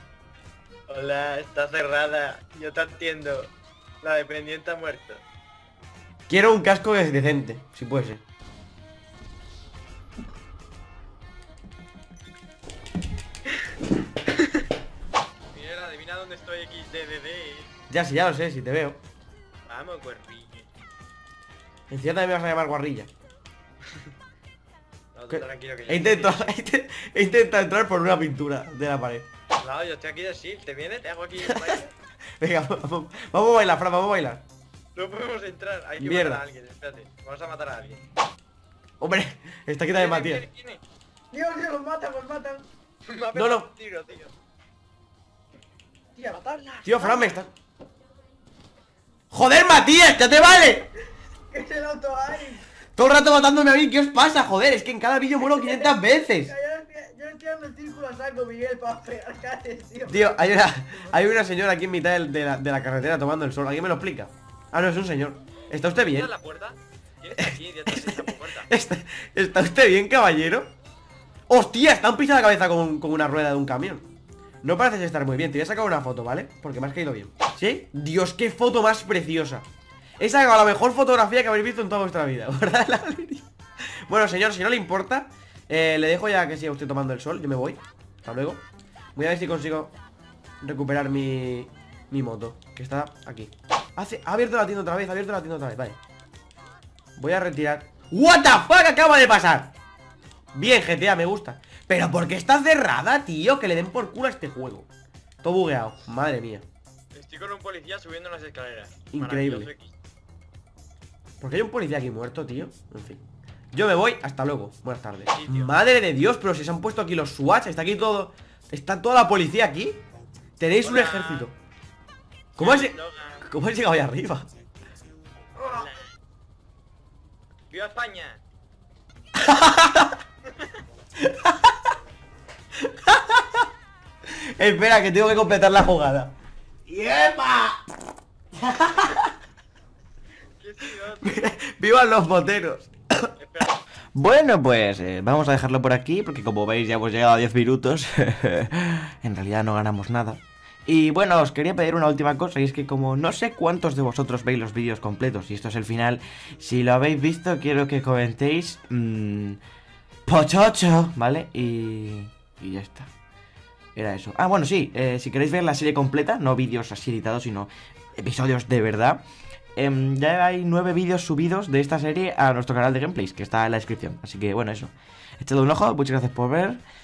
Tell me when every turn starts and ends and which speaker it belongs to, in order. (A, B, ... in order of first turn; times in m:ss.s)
0:00.9-0:03.5 A
0:04.0-0:05.2 A
0:06.3-0:08.2 B
0:15.5-0:17.7 A
0:17.9-0:19.0 B
0:19.7-0:20.7 A
0:21.9-0:23.1 B
0:25.1-0:26.5 A
0:25.3-0:29.2 B
0:29.6-0:31.9 A
0:31.4-0:31.8 B
0:32.4-0:34.4 B
0:34.9-0:38.0 A
0:36.0-0:36.4 B
0:39.0-0:40.4 B
0:39.9-0:40.8 A
0:41.3-0:42.6 C
0:43.0-0:44.3 A
0:43.3-0:43.7 B
0:46.2-0:47.3 C
0:46.3-0:46.8 A
0:46.8-0:47.5 B
0:49.3-0:50.9 B
0:51.5-0:52.6 C
0:52.9-0:56.5 B
0:55.4-1:01.2 C
1:00.1-1:06.3 B
1:05.9-1:08.7 A
1:07.4-1:10.7 B
1:11.5-1:14.1 B
1:14.6-1:19.6 B
1:20.2-1:28.6 B
1:29.2-1:29.9 B
1:30.6-1:36.0 B
1:37.2-1:39.7 B
1:40.5-1:44.9 B
1:45.4-1:46.6 B
1:47.1-1:49.9 A
1:49.1-1:49.7 B
1:51.4-1:53.2 B
1:53.7-2:00.0 B
1:55.3-1:55.8 A
2:00.6-2:01.6 B
2:00.8-2:01.5 A
2:02.6-2:03.5 A
2:02.6-2:04.5 B
2:05.6-2:05.8 C
2:05.6-2:06.1 A
2:07.7-2:08.4 A
2:09.4-2:10.2 B
2:11.2-2:11.8 B
2:12.8-2:13.7 B
2:14.2-2:16.3 B
2:16.9-2:17.7 B
2:18.6-2:19.3 B
2:20.6-2:21.3 A
2:21.2-2:23.3 B
2:23.4-2:23.7 A
2:24.1-2:39.6 D
2:40.2-2:43.1 D
2:43.9-2:56.8 D